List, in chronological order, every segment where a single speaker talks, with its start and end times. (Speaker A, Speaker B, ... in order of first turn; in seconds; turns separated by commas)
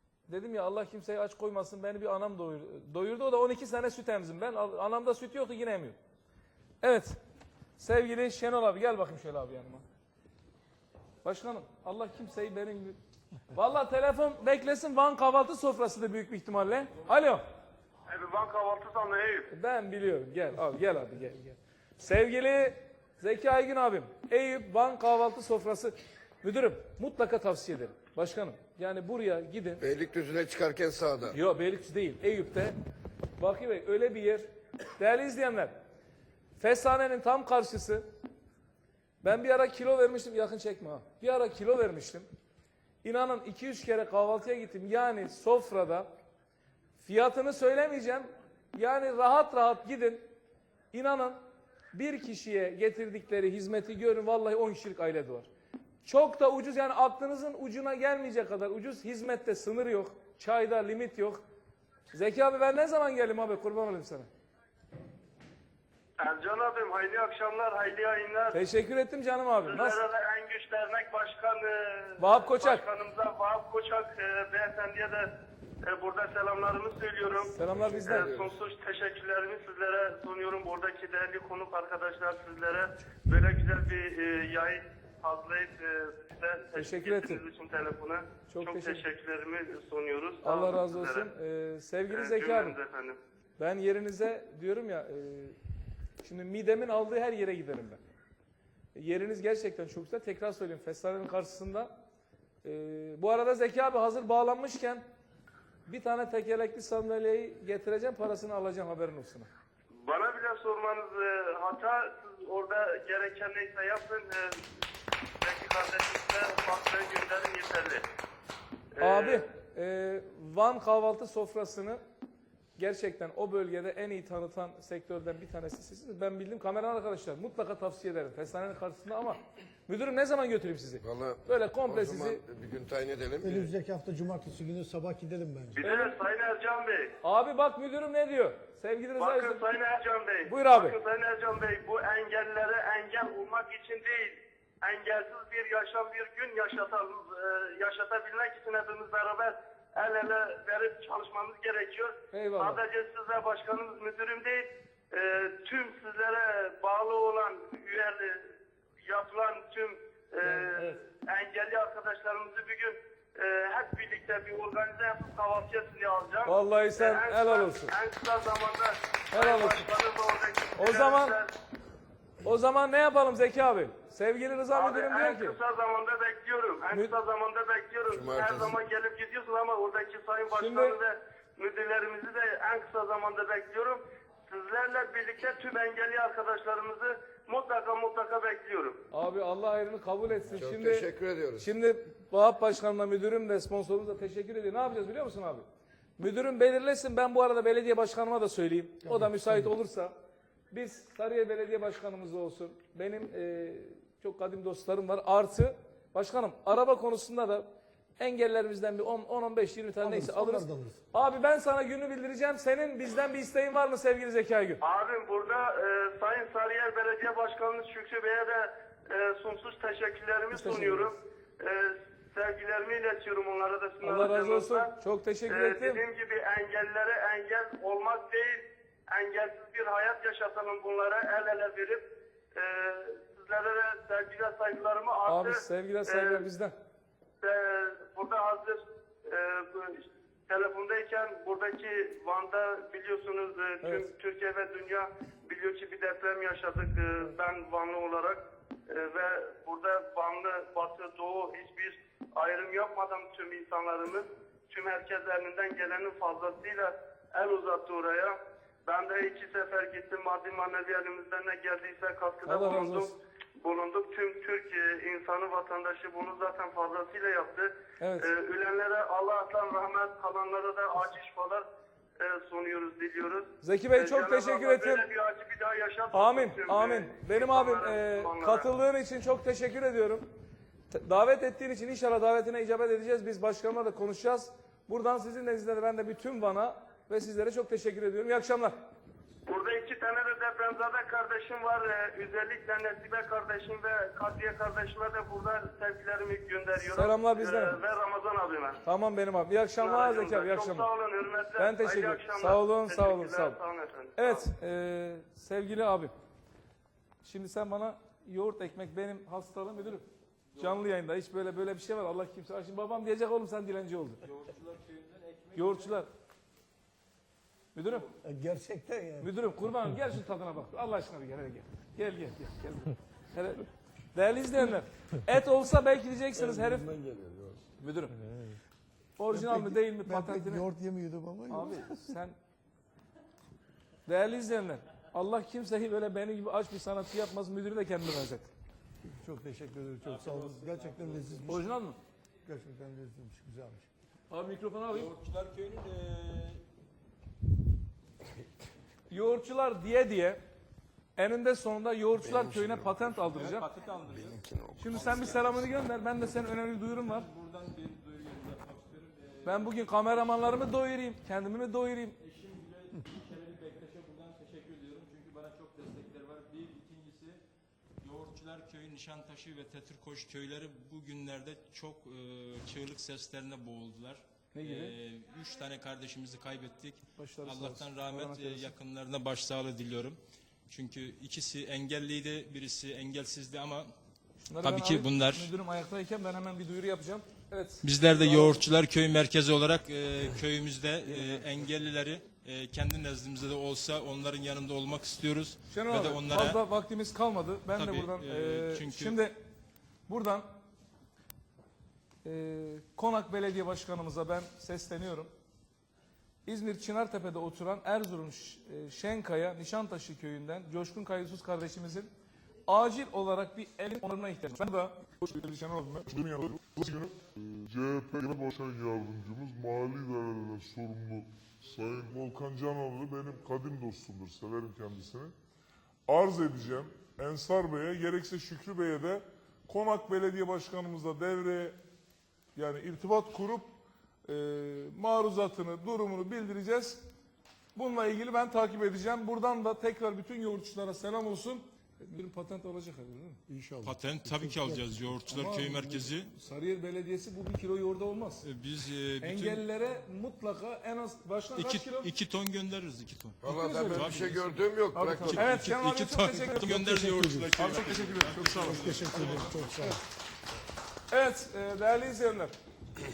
Speaker A: 0.3-6.0, Speaker A: 6.8-7.2, Speaker A: 7.8-9.8, Speaker A: 11.2-13.0, Speaker A: 13.5-17.4, Speaker B: 18.1-19.5, Speaker A: 19.5-29.8, Speaker C: 29.8-31.3, Speaker A: 31.3-32.8, Speaker A: 33.4-35.7, Speaker A: 36.6-38.0, Speaker A: 39.2-42.3, Speaker A: 43.0-46.1, Speaker A: 47.0-50.2, Speaker A: 50.9-51.4, Speaker A: 51.9-55.5, Speaker A: 56.0-61.4, Speaker A: 62.1-64.3, Speaker B: 66.2-68.6, Speaker A: 68.5-70.0, Speaker B: 69.6-75.3, Speaker A: 72.2-72.8, Speaker B: 75.8-91.3, Speaker A: 77.5-78.3, Speaker C: 78.1-78.3, Speaker A: 86.8-87.4, Speaker A: 88.5-89.0, Speaker A: 90.4-92.8, Speaker B: 92.1-93.2, Speaker A: 93.6-95.6, Speaker A: 96.2-98.0, Speaker A: 98.9-101.9, Speaker A: 102.6-105.0, Speaker A: 105.9-109.5, Speaker B: 110.0-114.6, Speaker B: 115.4-118.0, Speaker B: 119.0-119.4, Speaker A: 119.0-122.0, Speaker A: 122.8-132.4, Speaker C: 131.0-133.6, Speaker D: 133.4-135.8, Speaker B: 135.8-137.1, Speaker A: 135.8-136.1, Speaker A: 137.2-139.6, Speaker B: 139.2-158.5, Speaker A: 140.4-140.9, Speaker A: 152.3-152.8, Speaker B: 159.1-171.5, Speaker A: 160.4-161.0, Speaker A: 166.4-167.9, Speaker A: 169.3-169.9, Speaker A: 170.8-171.3, Speaker A: 172.4-175.6, Speaker B: 174.7-189.0, Speaker C: 178.1-178.7, Speaker A: 180.5-181.0, Speaker A: 189.1-191.1, Speaker C: 190.6-191.6, Speaker A: 191.6-195.6, Speaker A: 196.2-200.1, Speaker D: 199.0-199.7, Speaker A: 200.7-207.7, Speaker A: 208.2-214.8, Speaker D: 210.0-211.0, Speaker B: 214.8-224.9, Speaker A: 220.5-221.2, Speaker A: 224.0-226.0, Speaker B: 225.5-232.0, Speaker B: 232.5-236.4, Speaker A: 235.2-236.7, Speaker B: 237.4-258.4, Speaker A: 243.8-244.1, Speaker B: 258.9-271.6, Speaker A: 262.5-263.1, Speaker A: 268.0-268.3, Speaker B: 272.2-278.6, Speaker A: 273.6-275.0, Speaker A: 276.1-280.2, Speaker A: 280.9-288.8, Speaker B: 289.5-298.8, Speaker A: 296.9-297.8, Speaker A: 298.8-300.9, Speaker B: 299.8-304.4, Speaker A: 301.6-303.6, Speaker A: 304.2-306.1, Speaker A: 307.2-310.0, Speaker E: 310.5-310.8, Speaker A: 310.6-314.2, Speaker E: 314.2-316.0, Speaker A: 315.5-316.1, Speaker A: 317.8-318.1, Speaker D: 318.2-319.3, Speaker A: 319.2-326.9, Speaker D: 326.6-327.6, Speaker A: 327.8-328.1, Speaker D: 328.2-328.6, Speaker A: 329.2-330.6, Speaker D: 329.3-332.1, Speaker A: 331.5-332.3, Speaker A: 334.1-338.5, Speaker D: 339.0-341.7, Speaker E: 340.0-341.5, Speaker A: 341.5-342.0, Speaker D: 342.4-343.9, Speaker A: 344.3-345.1, Speaker E: 344.9-346.6, Speaker A: 349.1-350.4, Speaker A: 351.1-353.7, Speaker C: 352.3-352.8, Speaker E: 353.3-355.6, Speaker A: 354.8-357.3, Speaker E: 357.0-360.6, Speaker A: 359.4-362.2, Speaker E: 362.2-367.4, Speaker E: 368.0-380.2, Speaker A: 374.5-374.9, Speaker A: 377.2-378.7, Speaker E: 380.7-383.9, Speaker A: 384.4-388.6, Speaker E: 384.6-385.5, Speaker E: 387.8-396.6, Speaker A: 391.1-391.5, Speaker A: 395.7-399.3, Speaker E: 397.7-399.2, Speaker A: 400.1-400.4, Speaker A: 402.2-405.3, Speaker A: 406.4-412.1, Speaker A: 412.7-416.1, Speaker F: 416.1-425.3, Speaker F: 426.1-431.7, Speaker A: 432.6-433.6, Speaker A: 434.3-437.0, Speaker A: 437.7-443.4, Speaker D: 443.5-444.9, Speaker E: 443.8-446.3, Speaker A: 445.3-448.4, Speaker E: 448.4-449.6, Speaker A: 449.2-452.1, Speaker E: 451.6-459.7, Speaker C: 453.4-455.4, Speaker A: 453.4-454.3, Speaker A: 454.9-457.0, Speaker D: 456.6-457.6, Speaker A: 457.6-459.9, Speaker D: 458.3-460.0, Speaker A: 461.1-462.5